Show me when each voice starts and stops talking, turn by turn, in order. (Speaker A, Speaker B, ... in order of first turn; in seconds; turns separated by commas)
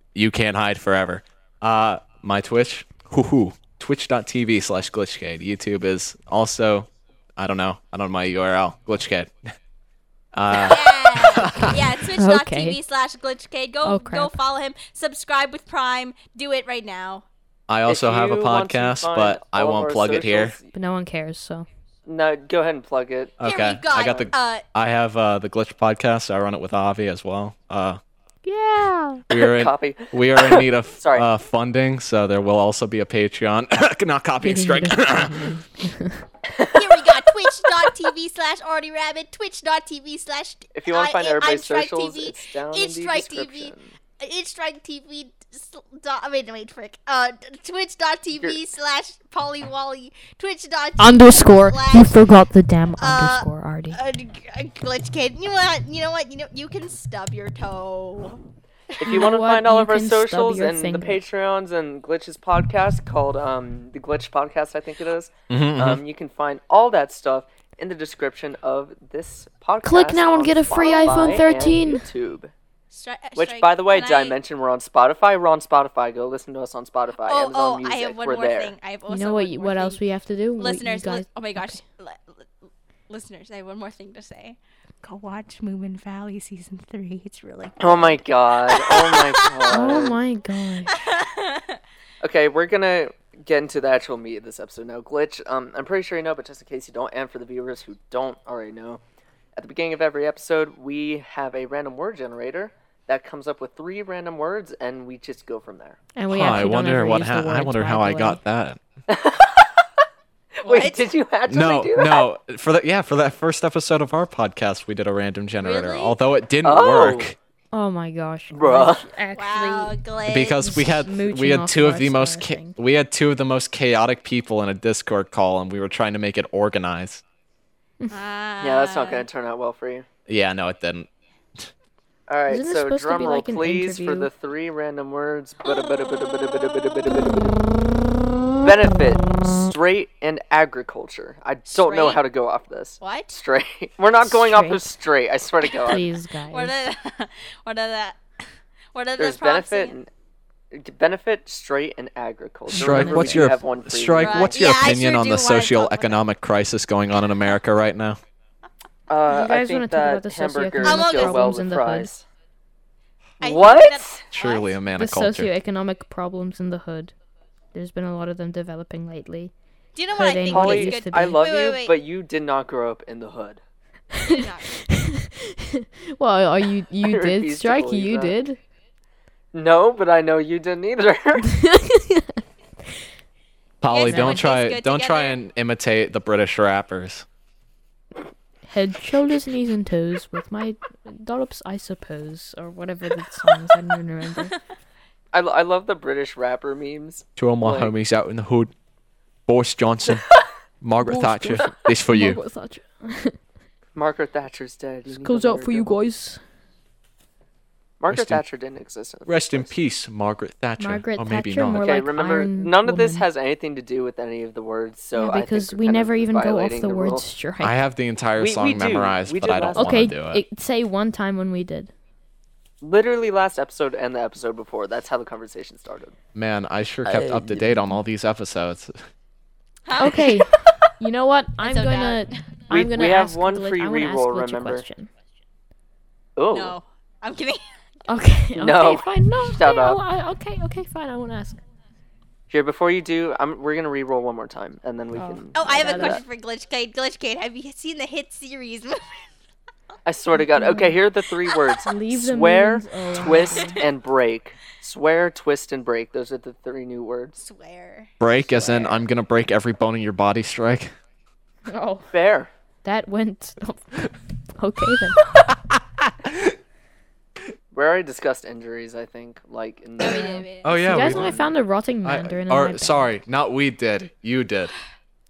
Speaker A: 0.1-9.3, Speaker A: 10.3-11.9, Speaker B: 10.5-17.2, Speaker C: 12.2-12.8, Speaker C: 13.8-14.3, Speaker A: 17.7-20.5, Speaker D: 17.9-20.7, Speaker C: 20.7-21.7, Speaker D: 22.1-23.4, Speaker A: 23.4-28.0, Speaker B: 23.4-24.6, Speaker C: 28.4-29.2, Speaker A: 29.3-35.6, Speaker D: 29.4-31.3, Speaker C: 34.4-36.2, Speaker D: 36.5-37.1, Speaker B: 36.7-52.2, Speaker D: 40.7-43.9, Speaker C: 51.0-54.0, Speaker B: 53.0-58.4, Speaker D: 59.0-72.5, Speaker C: 59.0-61.2, Speaker A: 65.5-66.0, Speaker C: 69.8-72.1, Speaker B: 70.9-71.5, Speaker B: 72.9-74.4, Speaker D: 73.3-78.7, Speaker B: 77.2-80.0, Speaker C: 79.1-81.8, Speaker B: 80.6-82.4, Speaker B: 83.1-90.0, Speaker D: 87.8-90.2, Speaker C: 89.7-91.0, Speaker B: 90.9-91.8, Speaker D: 92.2-99.0, Speaker D: 99.5-106.0, Speaker C: 106.1-108.4, Speaker A: 106.3-108.8, Speaker D: 109.1-110.0, Speaker D: 110.6-112.2, Speaker B: 110.6-111.1, Speaker A: 111.5-117.3, Speaker B: 115.6-116.2, Speaker D: 116.6-117.3, Speaker C: 117.7-120.0, Speaker D: 118.5-119.0, Speaker B: 119.3-120.6, Speaker A: 120.2-127.2, Speaker C: 120.5-122.8, Speaker B: 128.1-129.2, Speaker D: 128.6-130.1, Speaker A: 130.3-131.1, Speaker D: 132.3-137.5, Speaker C: 132.5-134.3, Speaker D: 138.6-146.1, Speaker B: 141.7-142.2, Speaker B: 143.0-143.4, Speaker C: 144.2-144.9, Speaker C: 145.8-146.7, Speaker B: 146.5-148.2, Speaker B: 148.9-149.9, Speaker D: 149.2-150.1, Speaker D: 150.7-154.6, Speaker A: 152.7-158.2, Speaker C: 152.7-153.6, Speaker B: 154.2-156.2, Speaker D: 159.1-162.2, Speaker C: 159.3-162.1, Speaker B: 160.8-161.5, Speaker B: 163.4-164.7, Speaker D: 163.4-164.2, Speaker A: 164.3-165.5, Speaker C: 164.9-167.1, Speaker C: 167.7-169.5, Speaker B: 169.9-171.9, Speaker C: 170.1-171.4, Speaker D: 170.5-173.6, Speaker C: 174.1-178.6, Speaker B: 174.2-174.8, Speaker D: 177.0-178.3, Speaker D: 179.5-181.5, Speaker C: 181.5-182.4, Speaker A: 183.8-187.2, Speaker B: 183.9-185.4, Speaker C: 184.1-184.5, Speaker C: 188.6-194.5, Speaker D: 195.3-197.9, Speaker A: 197.4-198.7, Speaker A: 199.5-200.3, Speaker A: 200.8-202.4, Speaker C: 201.0-203.4, Speaker D: 203.9-205.9, Speaker C: 205.1-206.4, Speaker D: 208.0-209.7, Speaker A: 208.1-208.4, Speaker A: 209.2-211.9, Speaker C: 210.8-213.2, Speaker D: 211.8-217.3, Speaker C: 215.1-217.9, Speaker A: 217.6-220.4, Speaker D: 218.3-220.1, Speaker C: 219.7-221.9, Speaker D: 222.8-226.1, Speaker A: 226.3-229.1, Speaker D: 227.1-227.7, Speaker B: 229.8-230.8, Speaker C: 230.0-235.1, Speaker B: 231.6-232.4, Speaker D: 232.7-234.8, Speaker D: 236.3-236.8, Speaker B: 236.5-237.6, Speaker C: 238.1-241.6, Speaker D: 238.6-240.0, Speaker D: 242.5-246.2, Speaker C: 245.1-246.2, Speaker B: 245.5-249.2, Speaker D: 250.0-257.4, Speaker C: 250.3-251.0, Speaker C: 251.8-253.9, Speaker B: 257.4-258.1, Speaker A: 258.2-260.9, Speaker D: 258.4-259.0, Speaker C: 261.6-262.1, Speaker D: 262.1-262.5, Speaker C: 262.8-265.2, Speaker A: 265.7-266.5, Speaker D: 267.7-270.4, Speaker B: 270.0-271.3, Speaker A: 270.6-271.5, Speaker C: 270.8-273.1, Speaker A: 272.0-274.7